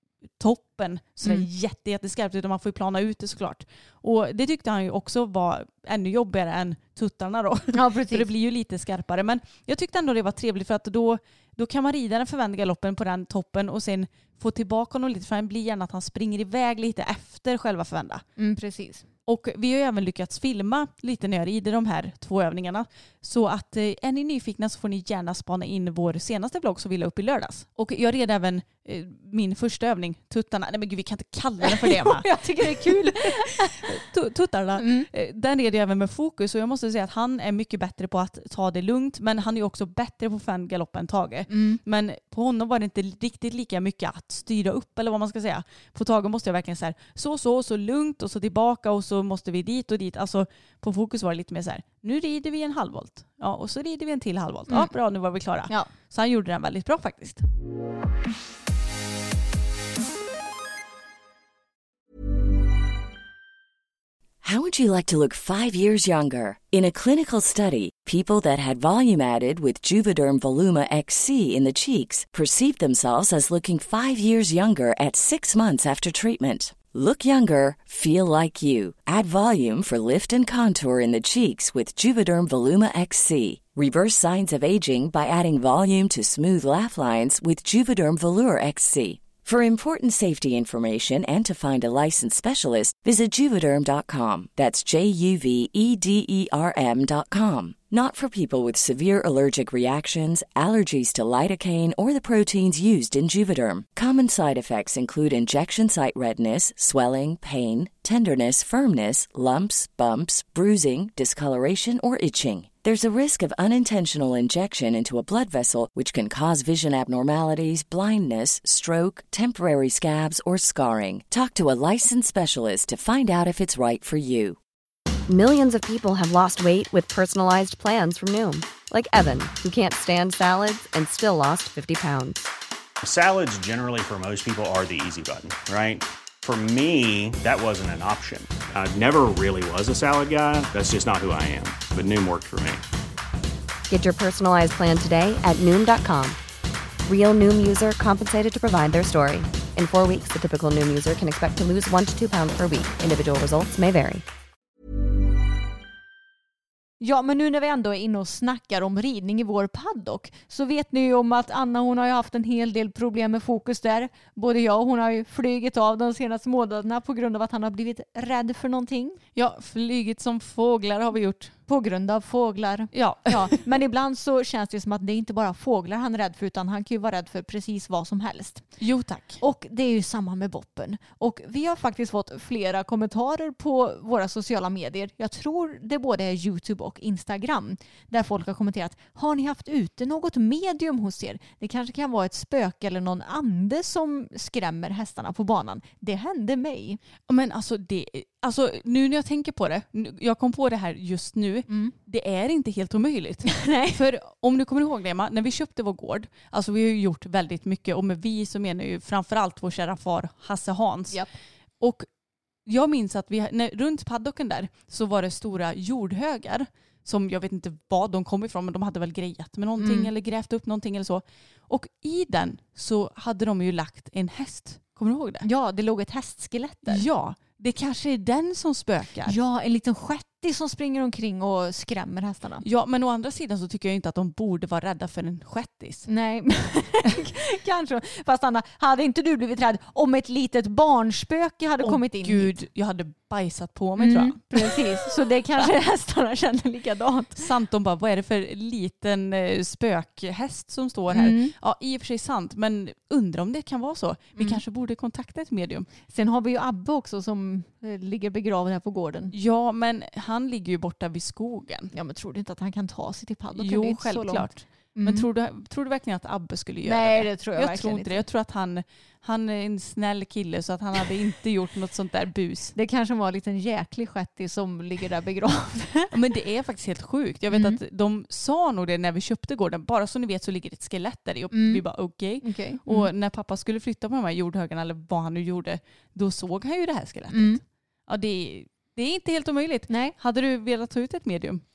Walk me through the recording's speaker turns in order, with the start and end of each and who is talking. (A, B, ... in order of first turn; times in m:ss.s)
0:00.4-0:18.2 A
0:07.7-0:08.3 B
0:18.4-0:19.0 B
0:19.3-0:57.4 A
0:31.6-0:33.9 B
0:34.8-0:35.1 B
0:41.5-0:41.8 B
1:04.4-2:04.6 C
2:05.3-2:12.5 D
2:13.0-2:22.8 E
2:23.9-2:26.4 D
2:27.0-2:34.2 D
2:37.0-2:49.2 B
2:49.4-2:51.5 A
2:51.7-2:58.6 B
2:52.9-2:53.6 A
2:58.8-2:59.4 A
2:59.4-3:17.0 B
3:17.3-3:31.2 A
3:21.7-3:21.9 B
3:23.5-3:24.0 B
3:31.8-3:32.0 A
3:32.6-3:45.5 A
3:39.8-3:40.1 B
3:45.4-3:47.0 B
3:46.9-3:49.4 A
3:49.2-3:52.6 B
3:52.6-3:56.1 A
3:56.1-4:02.5 B
4:01.8-4:05.7 A
4:04.0-4:07.4 B
4:07.4-4:15.9 A
4:11.1-4:11.5 B
4:16.1-4:19.3 B
4:19.3-4:21.9 A
4:21.9-4:25.2 B
4:23.6-4:32.7 A
4:26.8-4:28.2 B
4:32.7-4:36.1 B
4:36.1-4:51.6 A
4:37.5-4:37.8 B
4:41.5-4:41.8 B
4:42.4-4:43.1 B
4:47.3-4:47.6 B
4:49.9-4:50.1 B